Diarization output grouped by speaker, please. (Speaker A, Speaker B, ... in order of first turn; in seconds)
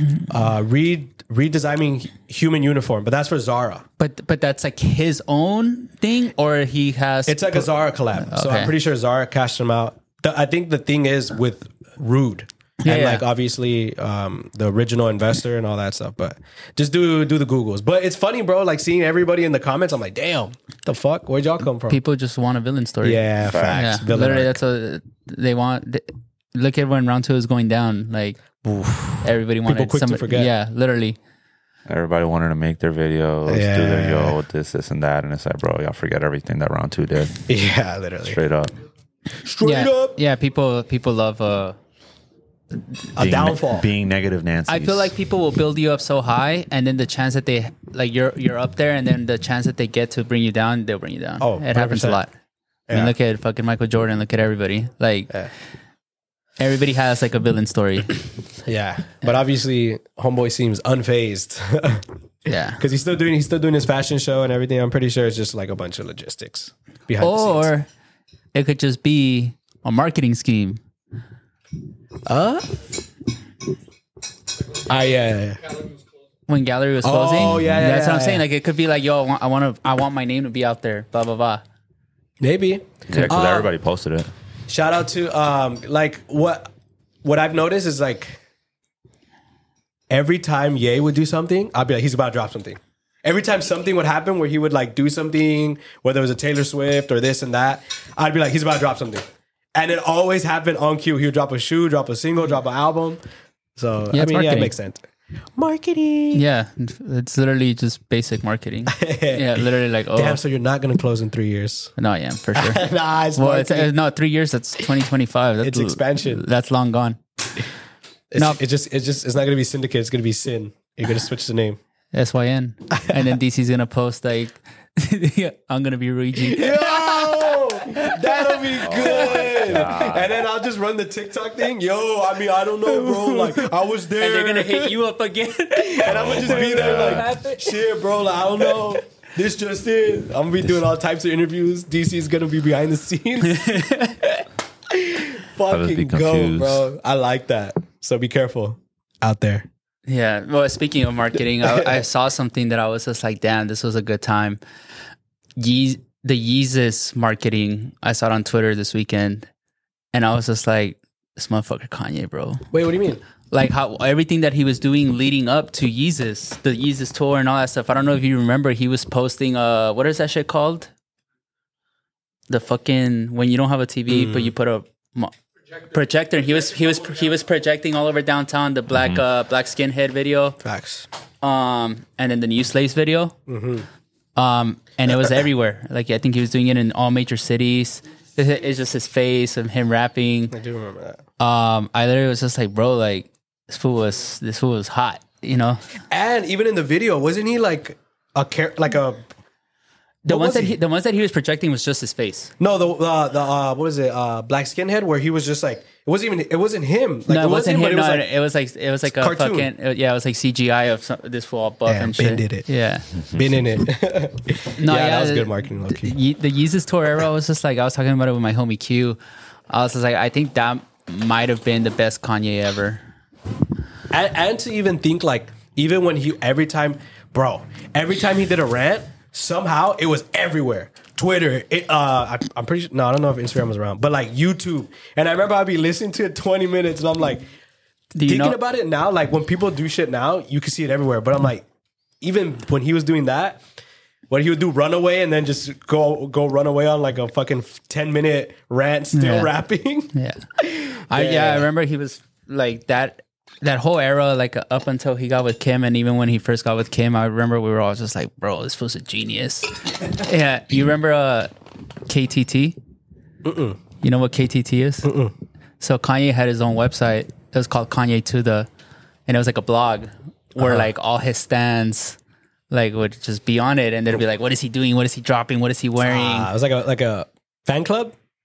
Speaker A: 0.3-3.8, 7.3-22.0, 23.0-24.6, 28.6-30.5, 33.5-34.4, 37.5-38.4, 39.4-40.2, 43.1-43.9, 51.4-52.2, 52.9-53.1, 58.7-62.0, 62.8-67.7, 72.3-72.7, 74.9-75.8, 77.0-78.4, 82.4-83.7, 84.7-86.7, 87.2-88.4, 90.1-103.2, 103.8-105.0, 105.6-106.4, 108.9-111.9, 112.5-113.9, 115.6-116.4, 118.3-121.8, 126.4-134.9, 135.8-143.7, 144.9-149.7, 151.6-152.0, 162.7-163.2, 174.1-174.5, 180.6-181.1, 183.5-183.9, 190.5-191.2, 196.1-199.2, 200.3-200.8, 202.6-208.3, 209.1-209.7, 211.9-212.7, 213.3-216.1, 224.1-237.4, 238.3-241.6, 242.2-243.6, 244.3-251.7, 263.4-263.8, 265.0-265.3, 270.6-270.9, 276.0-278.1
Speaker B: 4.0-8.7, 12.8-13.2, 21.9-23.2, 23.7-28.4, 29.2-31.2, 39.6-41.8, 44.7-52.3, 52.9-55.3, 56.6-58.2, 62.5-62.8, 67.2-67.9, 68.5-70.8, 76.5-81.6, 104.1-104.7, 106.3-110.4, 112.0-117.2, 122.1-130.0, 132.9-133.7, 134.2-137.8, 143.5-144.4, 150.1-154.6, 155.6-159.5, 160.1-162.6, 163.5-170.9, 172.5-175.3, 175.9-180.6, 181.4-183.3, 184.4-190.6, 191.4-195.8, 200.3-202.5, 207.3-213.1, 214.8-219.2, 219.7-223.0, 238.1-238.6, 249.1-249.5, 250.1-250.4, 251.1-261.5, 262.1-262.8, 264.0-265.1, 265.8-268.7, 269.3-272.2, 272.7-276.5
Speaker C: 23.4-23.9, 31.9-37.5, 38.2-38.7, 43.2-45.1, 77.5-77.8, 83.1-84.3, 128.8-130.4, 136.1-137.3, 145.7-146.9, 178.9-179.2